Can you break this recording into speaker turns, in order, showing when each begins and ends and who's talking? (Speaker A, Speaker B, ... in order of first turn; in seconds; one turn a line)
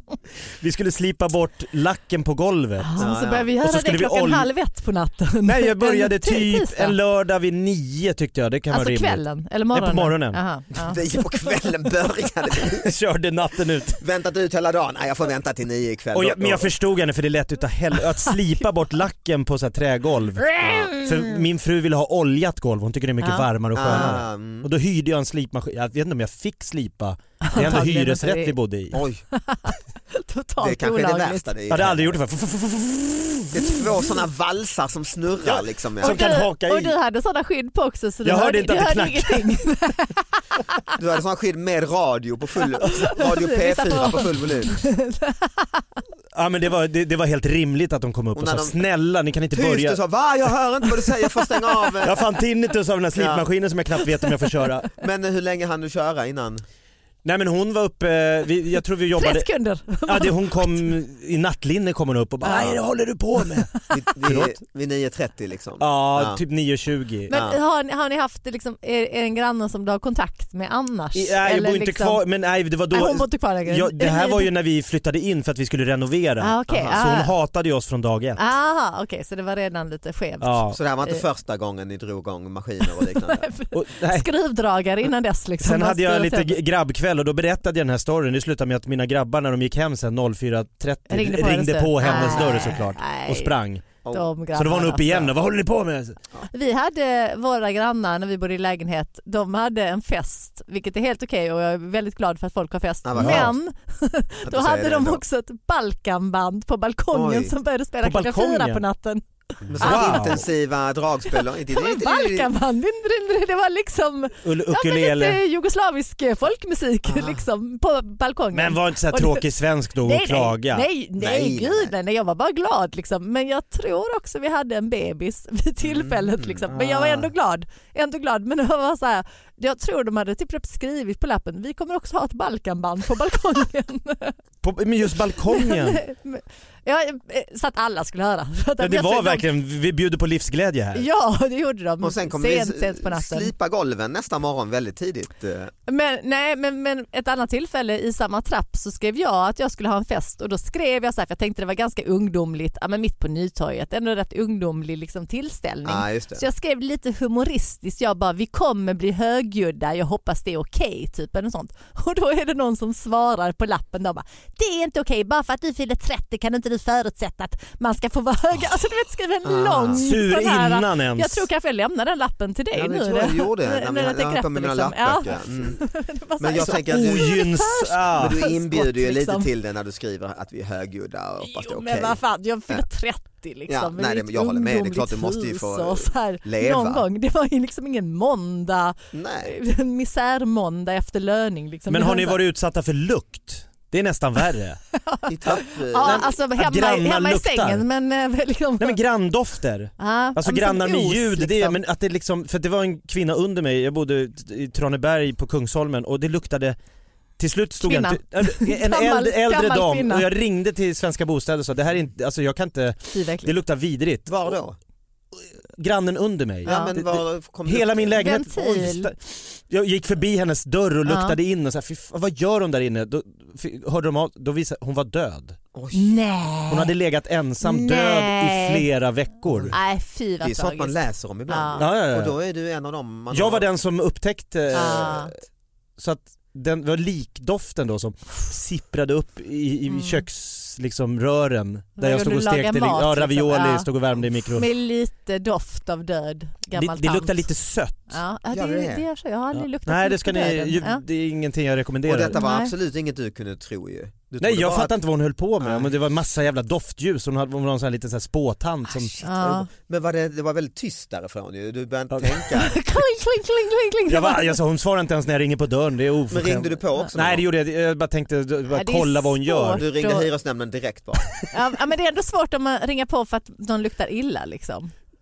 Speaker A: 0.6-4.5
Speaker B: 2.8-7.0
Speaker C: 3.0-3.5
Speaker A: 5.5-9.2
Speaker B: 8.7-11.0
Speaker A: 9.7-10.4
Speaker C: 10.8-12.9
Speaker A: 12.8-14.0
Speaker C: 14.0-16.7
Speaker A: 16.1-29.0
Speaker C: 20.6-20.9
Speaker B: 23.2-24.1
Speaker C: 23.7-24.7
Speaker B: 27.4-28.6
Speaker C: 28.9-29.2
Speaker B: 29.3-31.5
Speaker C: 30.6-32.2
Speaker A: 31.7-33.5
Speaker C: 33.5-36.3
Speaker A: 36.0-37.0
Speaker B: 36.0-40.2
Speaker A: 38.2-39.5
Speaker C: 41.0-44.7
Speaker B: 42.8-46.0
Speaker A: 46.3-50.0
Speaker C: 48.4-48.8
Speaker C: 49.5-52.2
Speaker A: 52.0-54.9
Speaker C: 53.1-53.5
Speaker C: 55.0-56.6
Speaker A: 57.2-59.5
Speaker B: 59.2-60.9
Speaker A: 60.0-64.5
Speaker B: 62.4-62.8
Speaker C: 63.9-66.4
Speaker A: 65.8-67.3
Speaker B: 67.3-72.2
Speaker C: 67.3-67.6
Speaker A: 71.2-78.4
Speaker B: 72.9-74.5
Speaker B: 76.4-77.3
Speaker C: 76.7-77.0
Speaker B: 78.4-81.2
Speaker A: 80.4-80.8
Speaker C: 80.7-83.5
Speaker B: 83.2-86.6
Speaker A: 83.7-84.3
Speaker A: 85.6-93.8
Speaker B: 91.1-93.6
Speaker C: 92.0-92.7
Speaker B: 94.1-95.3
Speaker A: 94.5-96.2
Speaker B: 96.5-109.2
Speaker C: 103.0-103.6
Speaker A: 103.2-103.5
Speaker C: 104.5-105.2
Speaker C: 107.1-107.5
Speaker A: 108.0-108.8
Speaker C: 109.7-112.5
Speaker B: 109.8-110.4
Speaker A: 109.8-110.4
Speaker B: 111.3-119.5
Speaker A: 114.4-115.4
Speaker C: 117.0-117.4
Speaker A: 118.5-120.8
Speaker B: 120.0-134.4
Speaker C: 121.2-121.9
Speaker C: 125.8-127.3
Speaker A: 134.6-136.0
Speaker B: 135.4-139.5
Speaker A: 138.8-141.1
Speaker B: 140.9-143.5
Speaker C: 142.0-145.7
Speaker B: 145.9-179.5
Speaker C: 155.8-156.5
Speaker C: 169.4-170.0
Speaker A: 169.9-171.5
Speaker C: 172.7-175.8
Speaker C: 176.4-177.5
Speaker A: 176.6-178.4
Speaker C: 178.1-182.8
Speaker B: 181.4-192.4
Speaker C: 183.7-187.1
Speaker C: 189.1-189.5
Speaker A: 191.9-194.8
Speaker B: 195.0-199.0
Speaker C: 195.3-196.3
Speaker A: 195.5-197.8
Speaker A: 198.8-206.8
Speaker B: 200.0-201.8
Speaker A: 207.4-214.5
Speaker B: 207.8-210.3
Speaker B: 213.1-213.5
Speaker C: 214.3-214.8
Speaker A: 215.8-225.6
Speaker C: 216.7-218.4
Speaker B: 216.7-216.9
Speaker B: 218.2-219.1
Speaker B: 221.1-221.4
Speaker C: 225.7-226.1
Speaker B: 225.9-226.9
Speaker A: 226.7-229.8
Speaker B: 227.6-228.9
Speaker C: 229.5-229.8
Speaker B: 229.7-230.9
Speaker C: 230.4-233.7
Speaker B: 231.5-231.9
Speaker A: 231.8-232.4
Speaker A: 233.3-235.3
Speaker B: 234.7-235.3
Speaker A: 236.0-244.7
Speaker B: 239.9-240.2
Speaker B: 242.0-243.9
Speaker B: 244.5-247.5
Speaker A: 246.7-248.2
Speaker B: 248.1-251.0
Speaker C: 248.5-249.0
Speaker A: 249.5-252.4
Speaker C: 252.1-255.0
Speaker B: 252.3-252.7
Speaker A: 254.4-259.1
Speaker C: 255.6-255.9
Speaker C: 258.9-262.7
Speaker B: 259.2-259.7
Speaker B: 262.6-264.6
Speaker A: 264.1-269.8
Speaker C: 266.3-267.4
Speaker B: 268.7-270.3
Speaker C: 269.7-271.3
Speaker B: 271.5-274.9